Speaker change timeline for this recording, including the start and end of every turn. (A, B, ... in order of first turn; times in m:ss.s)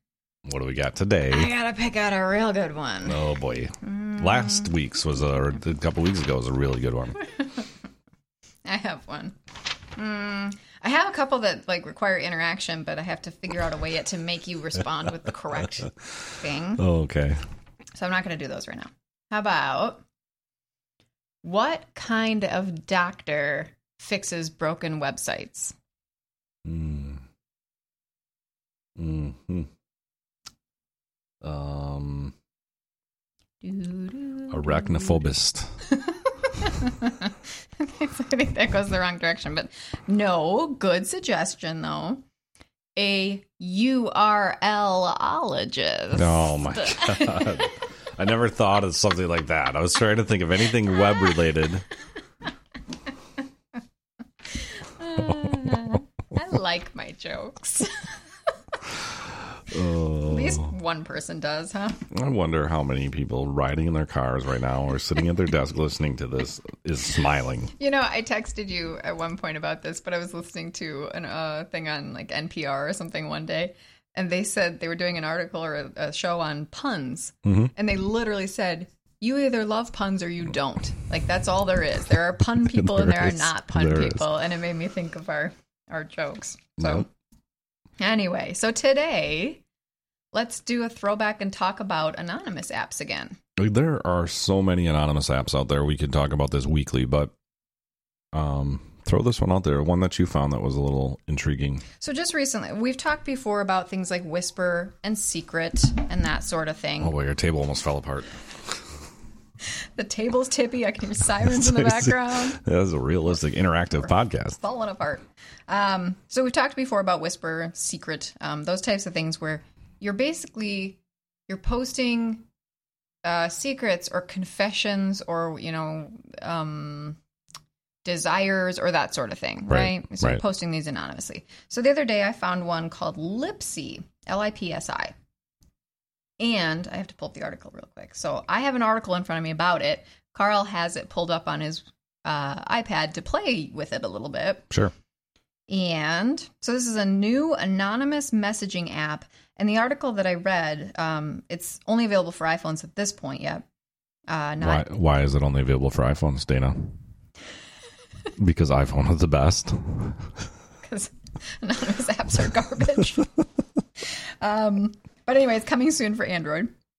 0:00.4-0:01.5 A
0:01.3-0:03.2 B
0:03.0-0:07.3 A
0:03.8-0:04.7 B
0:07.2-0:07.6 B
0:08.6-0:09.4 B
0:09.9-0:16.8 B
0:16.8-0:17.4 A
0:17.9-0:20.0 B
0:21.4-0:25.7 B
0:26.6-0:27.2 A
0:29.0-0:29.7 A
0:31.4-0:32.3 A
0:33.6-0:35.2 B
0:34.5-0:35.8 A
0:35.8-0:42.2 B
0:42.9-0:47.7 B
0:46.1-0:51.8 A
0:54.5-0:58.2 B
0:55.2-0:55.8 A
0:59.7-1:00.7 A
1:00.2-1:02.0 B
1:02.1-1:07.7 A
1:07.8-1:27.1 B
1:17.4-1:17.7 A
1:22.4-1:24.3 A
1:26.8-1:27.1 A
1:28.0-1:29.6 B
1:30.3-1:33.4 B
1:33.6-1:37.3 A
1:38.3-1:41.8 A
1:42.0-1:47.2 B
1:47.0-1:48.8 A
1:49.8-1:52.6 B
1:51.4-1:54.6 A
1:54.0-2:02.4 B
2:03.2-2:07.2 B
2:08.0-2:15.1 B
2:09.7-2:10.4 A
2:16.4-2:24.7 B
2:25.7-2:33.6 B
2:34.3-2:34.8 B
2:34.6-2:37.0 A
2:38.4-2:40.3 A
2:40.8-2:43.3 B
2:44.0-2:46.7 B